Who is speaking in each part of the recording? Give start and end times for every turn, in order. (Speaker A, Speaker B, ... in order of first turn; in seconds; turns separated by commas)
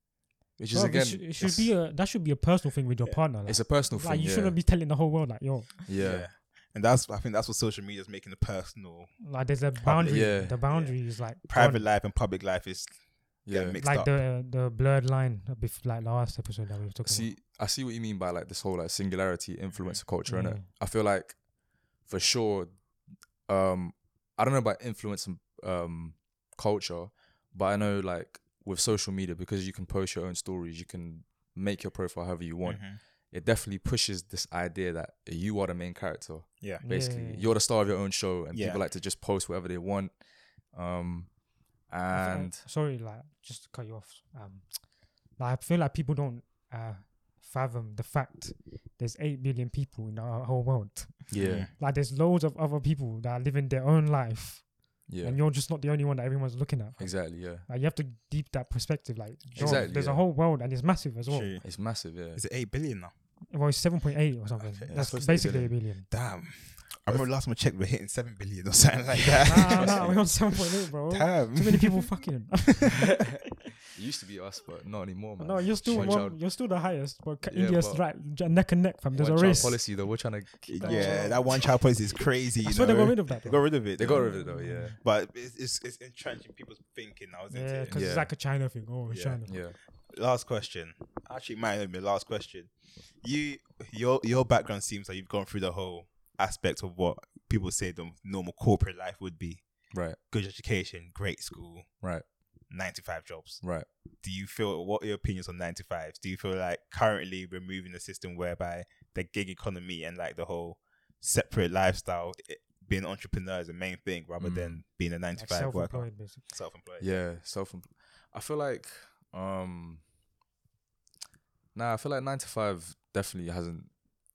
Speaker A: 0.6-1.7, Speaker B: 0.7-5.9, Speaker A: 3.5-4.6, Speaker A: 5.9-6.3, Speaker C: 6.0-9.1, Speaker B: 9.2-11.9, Speaker C: 9.8-12.9, Speaker A: 10.1-10.6, Speaker A: 13.5-13.8, Speaker C: 13.5-14.1, Speaker B: 13.8-17.3, Speaker A: 17.1-21.4, Speaker C: 19.8-20.0, Speaker B: 20.3-20.7, Speaker A: 22.0-22.9, Speaker A: 23.5-40.1, Speaker C: 32.6-33.0, Speaker B: 36.8-37.5, Speaker C: 38.5-38.8, Speaker A: 40.7-41.4, Speaker A: 41.9-42.6, Speaker B: 42.1-61.5, Speaker A: 51.3-51.7, Speaker C: 51.4-51.7, Speaker A: 55.1-55.4, Speaker A: 57.0-57.7, Speaker C: 59.5-59.9, Speaker A: 59.6-60.2, Speaker C: 61.3-63.1, Speaker A: 61.6-62.4, Speaker B: 63.5-66.1, Speaker C: 64.6-65.2, Speaker A: 64.9-65.8, Speaker C: 66.1-72.1, Speaker A: 69.2-70.3, Speaker B: 69.5-73.3, Speaker A: 73.9-76.4, Speaker B: 75.4-80.1, Speaker C: 75.8-76.3, Speaker A: 77.5-78.0, Speaker A: 79.1-81.4, Speaker C: 80.7-88.0, Speaker B: 80.8-81.7, Speaker B: 82.6-85.0, Speaker A: 84.0-85.0, Speaker B: 87.5-89.5, Speaker A: 87.9-88.3, Speaker A: 89.1-89.8, Speaker C: 90.1-99.7, Speaker A: 99.9-100.2, Speaker C: 100.3-101.9, Speaker C: 102.7-103.6, Speaker C: 104.2-117.2, Speaker A: 114.4-114.8, Speaker B: 115.4-116.4, Speaker A: 117.0-120.0, Speaker A: 121.7-123.9